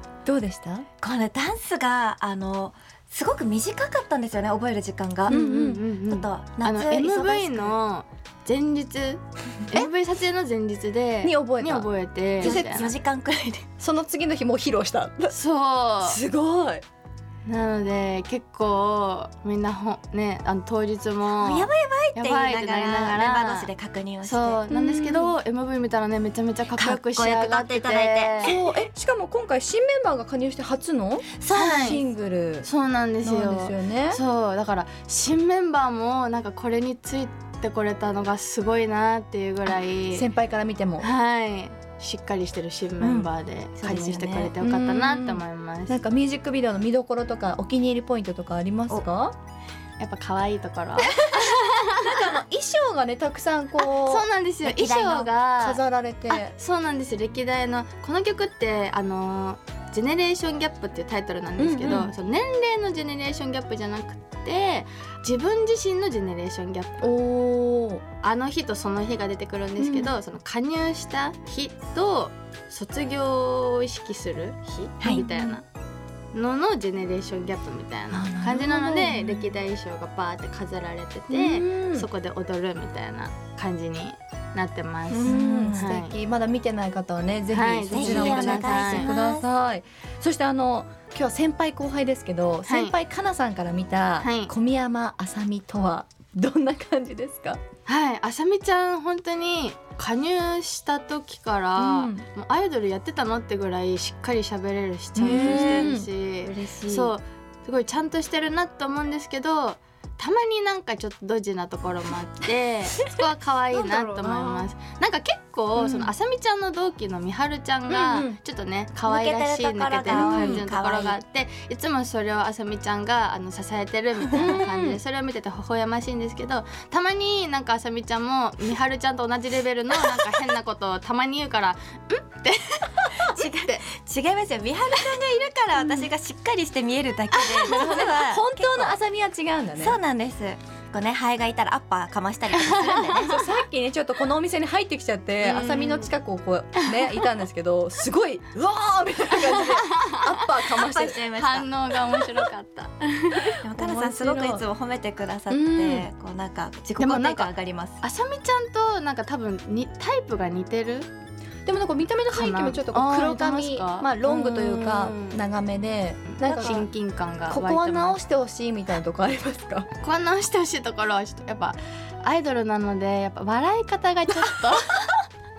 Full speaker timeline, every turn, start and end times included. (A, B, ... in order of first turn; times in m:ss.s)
0:00.2-0:00.9 A
0:01.0-0:05.4 B
0:05.3-0:12.9 C
0:05.3-0:05.8 A
0:06.0-0:07.8 B
0:11.2-0:12.6 A
0:12.4-0:13.7 B
0:13.8-0:15.3 A
0:15.3-0:16.2 C
0:16.0-0:16.8 A
0:17.5-0:23.7 C
0:21.3-0:24.6 B
0:24.2-0:28.5 C
0:24.7-0:25.4 A
0:26.8-0:28.6 B
0:28.4-0:32.7 A
0:31.4-0:32.0 B
0:31.5-0:32.0 C
0:32.6-0:40.2 C
0:33.2-0:34.2 A
0:40.1-0:41.1 A
0:41.0-0:46.0 C
0:43.0-0:44.5 B
0:44.6-0:49.4 A
0:50.0-0:52.1 C
0:51.9-0:54.2 A
0:53.8-0:55.8 C
0:54.6-0:55.2 B
0:55.2-0:56.5 A
0:56.3-1:07.1 C
1:01.6-1:02.1 A
1:07.0-1:08.0 A
1:08.2-1:15.6 C
1:09.8-1:10.1 A
1:15.0-1:15.6 A
1:16.3-1:26.1 C
1:18.1-1:19.5 A
1:21.3-1:22.1 A
1:25.1-1:25.9 B
1:25.2-1:37.6 A
1:27.5-1:29.1 C
1:27.9-1:29.4 B
1:32.7-1:33.0 C
1:34.2-1:34.5 C
1:37.9-2:13.8 C
1:41.8-1:42.2 A
1:45.2-1:46.1 A
1:45.2-1:47.1 B
1:53.7-1:54.6 B
1:55.7-1:56.1 A
1:57.9-1:58.4 A
1:59.1-2:01.2 B
2:00.1-2:00.6 A
2:04.4-2:05.0 A
2:13.2-2:19.0 B
2:15.8-2:16.1 A
2:17.4-2:17.8 C
2:17.6-2:20.0 A
2:19.8-2:23.3 B
2:22.6-2:23.4 C
2:23.0-2:31.2 A
2:25.4-2:26.1 C
2:29.4-2:30.3 C
2:30.8-2:31.7 B
2:31.3-2:33.6 C
2:33.6-2:38.0 B
2:33.8-2:34.6 A
2:35.5-2:36.1 A
2:37.0-2:41.1 C
2:41.6-2:46.8 A
2:42.3-2:45.4 C
2:46.3-2:48.2 C
2:46.4-2:46.8 B
2:47.5-2:49.9 A
2:50.0-2:55.2 C